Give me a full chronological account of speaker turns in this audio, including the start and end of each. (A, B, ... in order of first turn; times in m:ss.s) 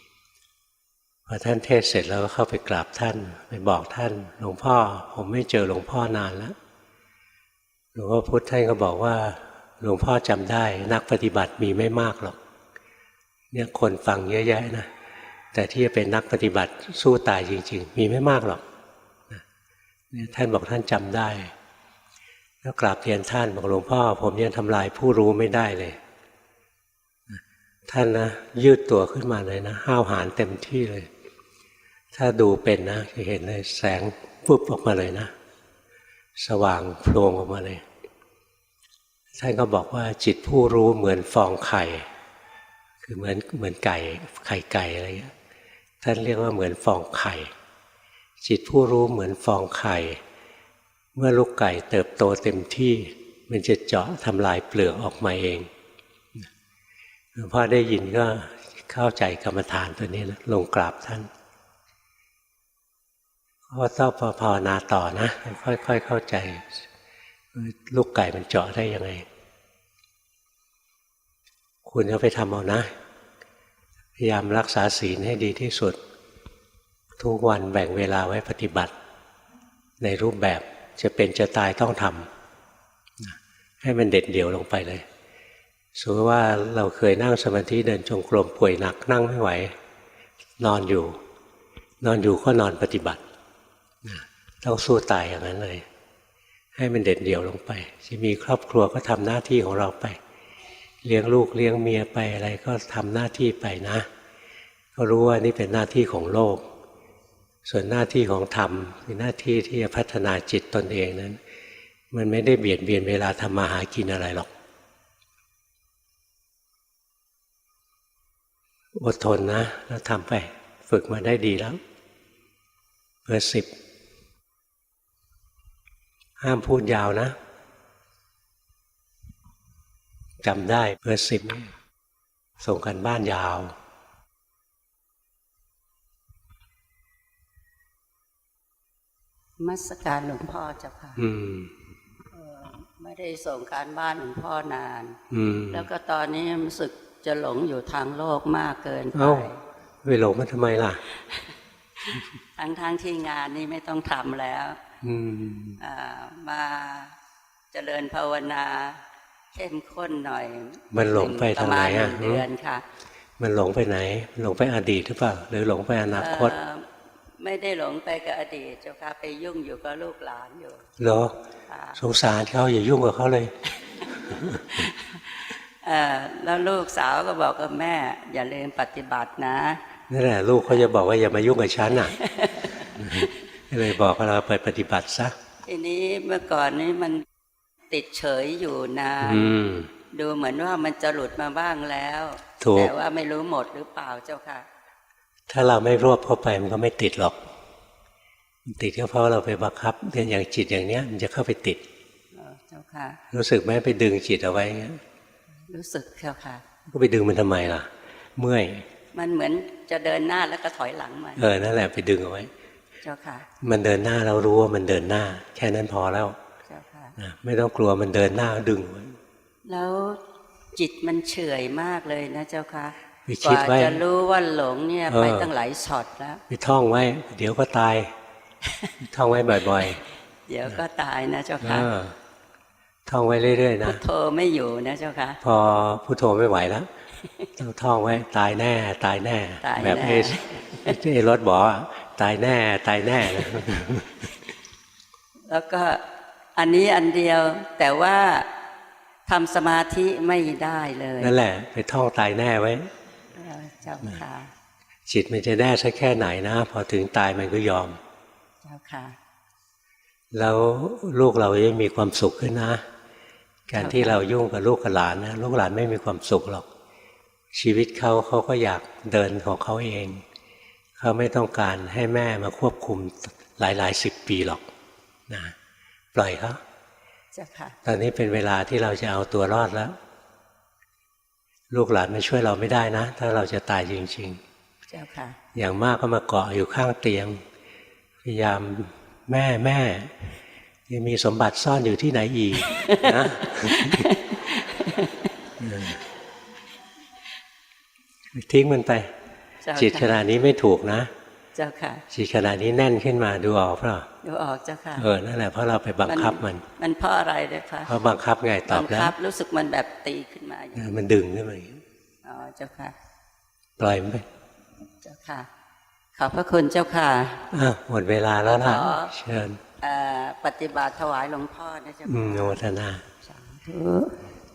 0:01.3-0:06.6 A
0:08.0-0:12.4 A
0:13.5-0:14.9 A
0:15.5-0:18.7 A
0:20.1-0:21.5 A
0:22.6-0:26.0 A
0:27.3-0:31.1 A
0:32.1-0:35.3 A
0:36.4-0:37.8 A
0:39.3-0:42.1 A
0:43.0-0:45.3 A
0:46.0-0:47.5 A
0:48.4-0:50.2 A
0:51.2-0:55.7 A
0:57.3-1:01.3 A
1:03.7-1:06.9 A
1:07.5-1:09.3 A
1:11.8-1:12.9 A
1:14.2-1:16.0 A
1:17.2-1:18.9 A
1:20.0-1:22.3 A
1:23.2-1:25.1 A
1:26.0-1:29.7 A
1:30.6-1:31.2 A
1:32.0-1:33.2 A
1:34.0-1:35.9 A
1:36.8-1:40.2 A
1:41.0-1:44.1 A
1:45.0-1:46.7 A
1:47.6-1:51.4 A
1:52.1-1:54.5 A
1:58.9-2:01.8 A
2:03.2-2:03.8 A
2:06.4-2:07.4 A
2:10.4-2:11.7 A
2:12.6-2:13.8 A
2:19.6-2:21.2 B
2:21.2-2:21.7 A
2:22.3-2:25.2 B
2:25.3-2:25.9 A
2:25.7-2:29.6 B
2:29.1-2:29.5 A
2:30.0-2:31.0 A
2:32.0-2:34.8 B
2:35.0-2:35.8 A
2:35.8-2:37.1 B
2:37.7-2:39.0 B
2:39.5-2:42.8 B
2:40.9-2:42.4 A
2:43.4-2:46.5 A
2:46.2-2:46.9 B
2:47.4-2:50.8 B
2:51.0-2:51.4 A
2:51.7-2:52.0 B
2:52.0-2:53.5 A
2:54.3-2:54.6 A
2:54.5-2:59.8 B
3:00.1-3:02.2 A
3:02.0-3:03.3 B
3:03.0-3:05.4 A
3:05.6-3:07.2 B
3:07.9-3:09.5 B
3:09.2-3:09.9 A
3:10.1-3:14.7 B
3:12.6-3:12.9 A
3:15.5-3:17.5 A
3:18.7-3:21.8 A
3:22.3-3:23.2 B
3:23.3-3:25.0 A
3:25.7-3:26.6 B
3:26.9-3:28.9 A
3:29.1-3:31.5 B
3:31.4-3:32.5 A
3:33.0-3:33.5 B
3:33.6-3:36.4 A
3:36.7-3:37.2 B
3:37.2-3:39.2 A
3:39.7-3:40.2 B
3:40.7-3:46.4 B
3:43.3-3:44.0 A
3:45.1-3:45.5 A
3:46.5-3:48.1 A
3:48.7-3:48.9 B
3:49.0-3:50.0 A
3:49.8-3:51.9 B
3:51.6-3:52.2 A
3:53.1-3:54.0 A
3:53.8-3:55.4 B
3:55.4-3:56.9 A
3:57.6-4:04.3 A
3:59.6-4:00.9 B
4:05.5-4:06.0 B
4:06.6-4:08.5 B
4:09.3-4:11.3 B
4:11.2-4:12.9 A
4:13.4-4:14.5 B
4:15.1-4:18.0 A
4:18.6-4:19.2 B
4:20.3-4:22.8 A
4:23.7-4:26.7 A
4:23.8-4:24.2 B
4:27.5-4:30.2 A
4:31.0-4:34.7 A
4:35.3-4:35.6 A
4:36.1-4:36.6 A
4:37.3-4:37.8 B
4:37.8-4:40.0 A
4:41.7-4:44.4 A
4:44.9-4:45.4 B
4:45.5-4:47.4 A
4:48.2-4:50.3 A
4:50.9-4:54.1 A
4:52.6-4:55.3 B
4:55.6-4:56.0 A
4:58.3-4:59.1 A
4:59.6-5:00.2 B
4:59.8-5:01.1 A
5:01.6-5:02.0 B
5:02.1-5:04.1 A
5:04.2-5:05.1 B
5:05.0-5:06.6 A
5:06.0-5:07.9 B
5:07.9-5:09.2 A
5:08.7-5:10.8 B
5:10.8-5:11.8 A
5:12.2-5:12.9 B
5:13.8-5:14.3 A
5:15.0-5:15.5 B
5:16.2-5:17.5 B
5:17.5-5:19.6 A
5:18.4-5:19.1 B
5:19.8-5:22.6 B
5:22.1-5:23.0 A
5:23.2-5:24.2 B